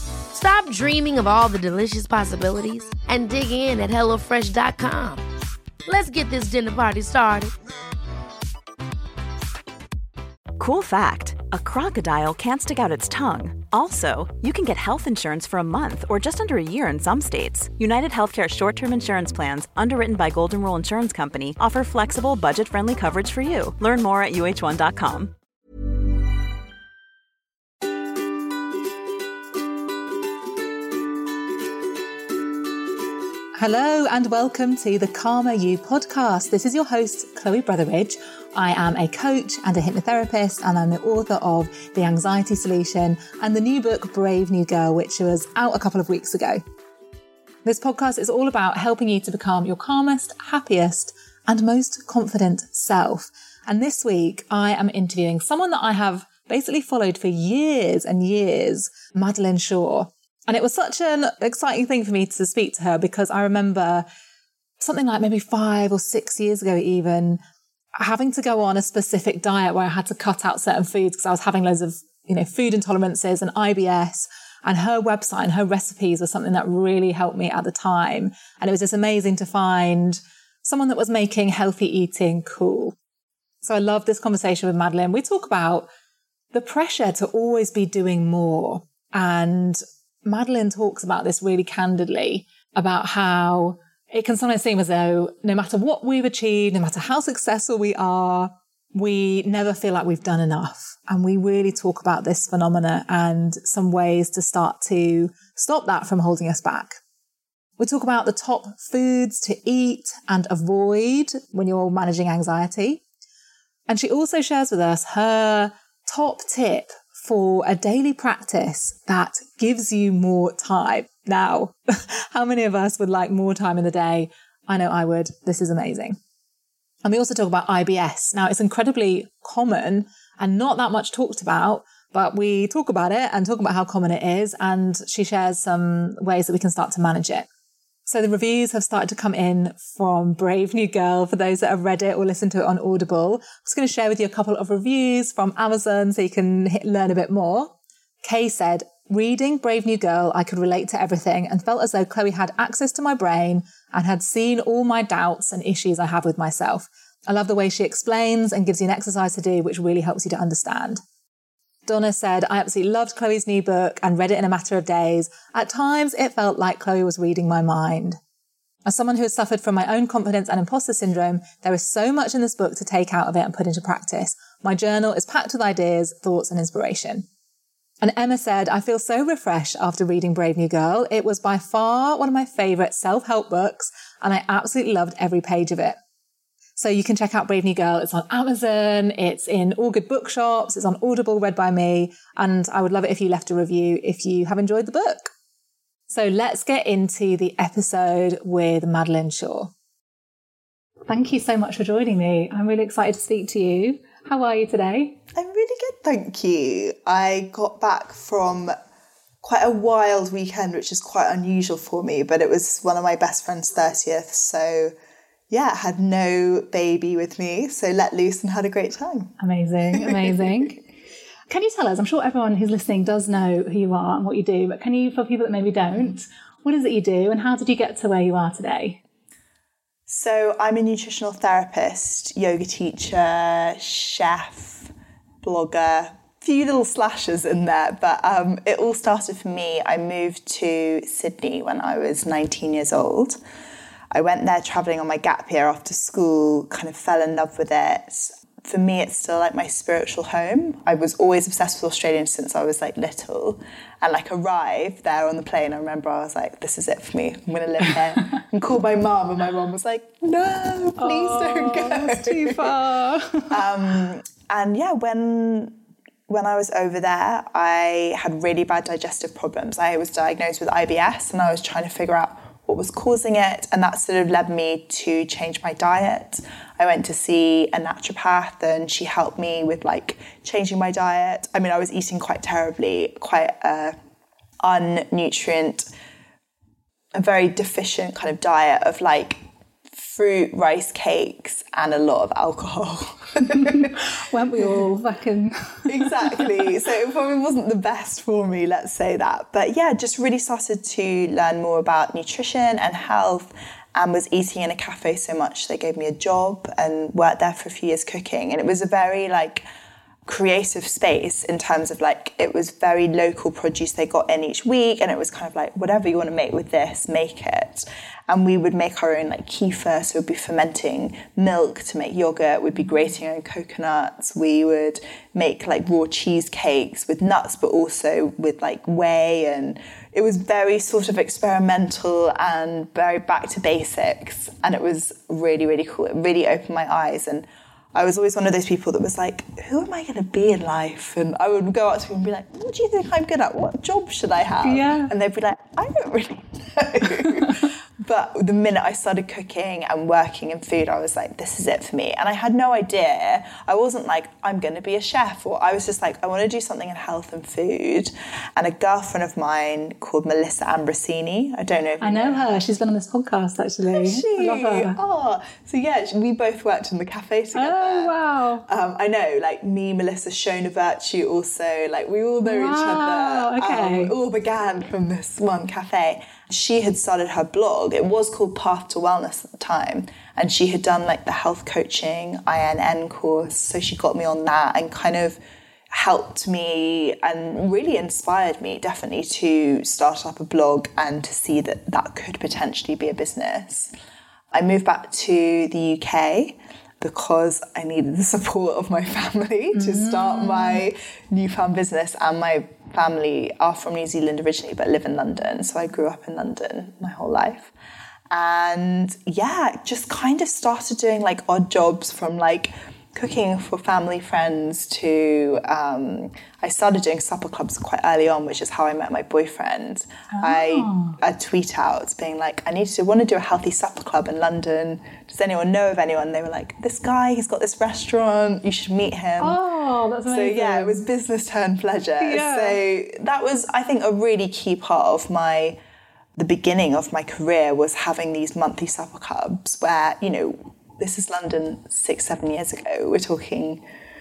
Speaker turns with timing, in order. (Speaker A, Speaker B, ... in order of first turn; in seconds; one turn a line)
Speaker A: 0.3-5.2
Speaker A: 5.8-7.5
Speaker B: 10.6-25.3
Speaker C: 33.6-46.6
Speaker C: 47.6-64.0
Speaker C: 64.8-67.4
Speaker C: 68.0-83.0
Speaker C: 83.6-85.9
Speaker C: 86.5-107.0
Speaker C: 107.8-113.0
Speaker C: 113.9-126.2
Speaker C: 127.0-137.5
Speaker C: 138.1-161.0
Speaker C: 161.9-168.2
Speaker C: 168.8-177.3
Speaker C: 178.0-186.0
Speaker C: 186.8-195.3
Speaker C: 196.1-199.7
Speaker C: 201.1-205.2
Speaker D: 205.3-208.7
Speaker D: 209.4-214.9
Speaker D: 215.5-219.3
Speaker C: 219.4-220.8
Speaker D: 219.9-220.5
Speaker C: 221.5-229.0
Speaker D: 225.9-226.2
Speaker D: 230.1-243.4
Speaker D: 244.1-262.7
Speaker C: 261.0-263.7
Speaker D: 263.5-265.8
Speaker D: 266.3-283.9
Speaker D: 284.6-285.9
Speaker D: 287.1-289.4
Speaker D: 289.9-293.9
Speaker C: 293.5-296.6
Speaker D: 295.9-309.6
Speaker D: 310.2-362.5
Speaker C: 344.6-345.1
Speaker C: 362.0-365.0
Speaker D: 363.9-368.1
Speaker C: 367.5-368.6
Speaker D: 368.6-385.4
Speaker C: 372.4-374.1
Speaker D: 385.9-393.9
Speaker D: 394.5-407.7
Speaker C: 399.7-400.8
Speaker D: 408.3-429.6
Speaker C: 420.3-421.2
Speaker C: 429.4-431.1
Speaker D: 430.3-435.8
Speaker C: 432.2-432.8
Speaker D: 436.4-443.8